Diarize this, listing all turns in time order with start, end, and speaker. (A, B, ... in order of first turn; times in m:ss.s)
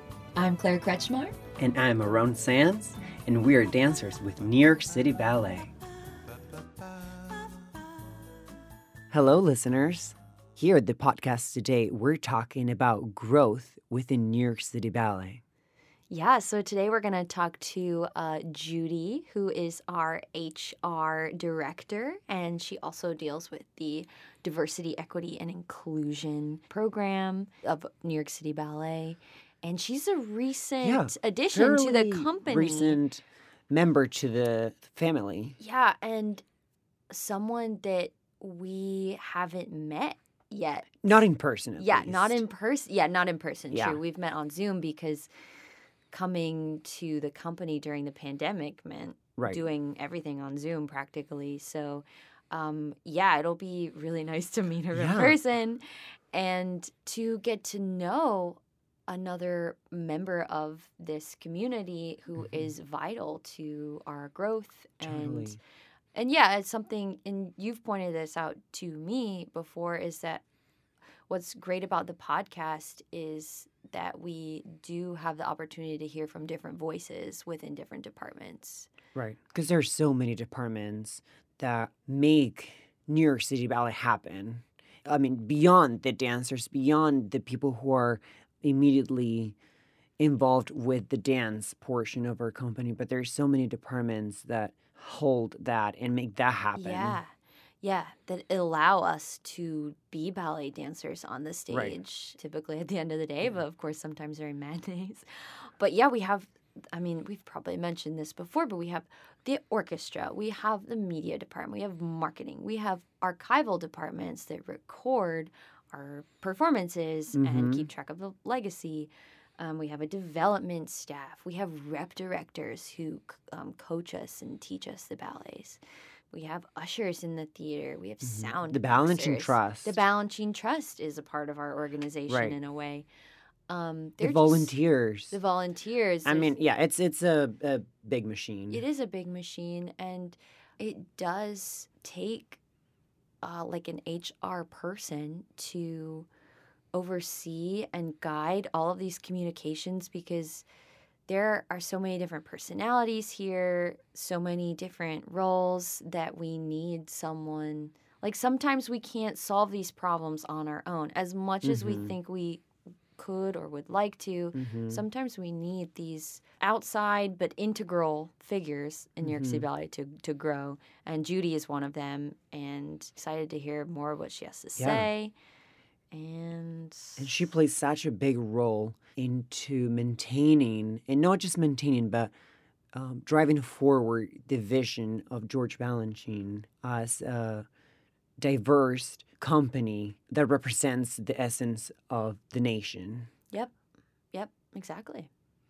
0:00.4-0:01.4 A
0:01.6-0:05.7 B
0:09.1-0:15.4 B
0:16.1-0:33.0 A
0:30.8-0:35.6 B
0:35.6-0:36.4 A
0:37.1-0:41.0 A
0:41.0-0:42.4 B
0:41.8-0:45.3 A
0:43.7-0:44.0 B
0:46.1-1:05.6 A
0:49.4-0:49.6 B
0:54.9-0:55.4 B
1:05.0-1:05.6 B
1:06.1-1:10.4 A
1:11.3-1:18.9 A
1:19.1-1:29.6 B
1:30.2-1:37.2 B
1:36.8-2:05.8 A
1:41.7-1:42.0 B
1:57.3-1:57.8 B
2:06.3-2:13.0 A
2:08.2-2:10.0 B
2:12.3-2:12.6 B
2:13.7-2:14.7 A
2:14.2-2:15.4 B
2:15.3-2:16.5 A
2:16.2-2:18.8 B
2:18.7-2:22.6 A
2:23.4-2:26.3 A
2:26.9-2:30.6 A
2:31.3-2:42.6 A
2:41.6-2:42.1 B
2:43.2-2:55.3 A
2:44.5-2:45.0 B
2:49.2-2:49.6 B
2:54.8-2:55.1 B
2:56.1-2:57.3 A
2:57.2-3:02.3 B
3:02.9-3:07.6 B
3:08.4-3:13.3 B
3:14.3-3:15.3 A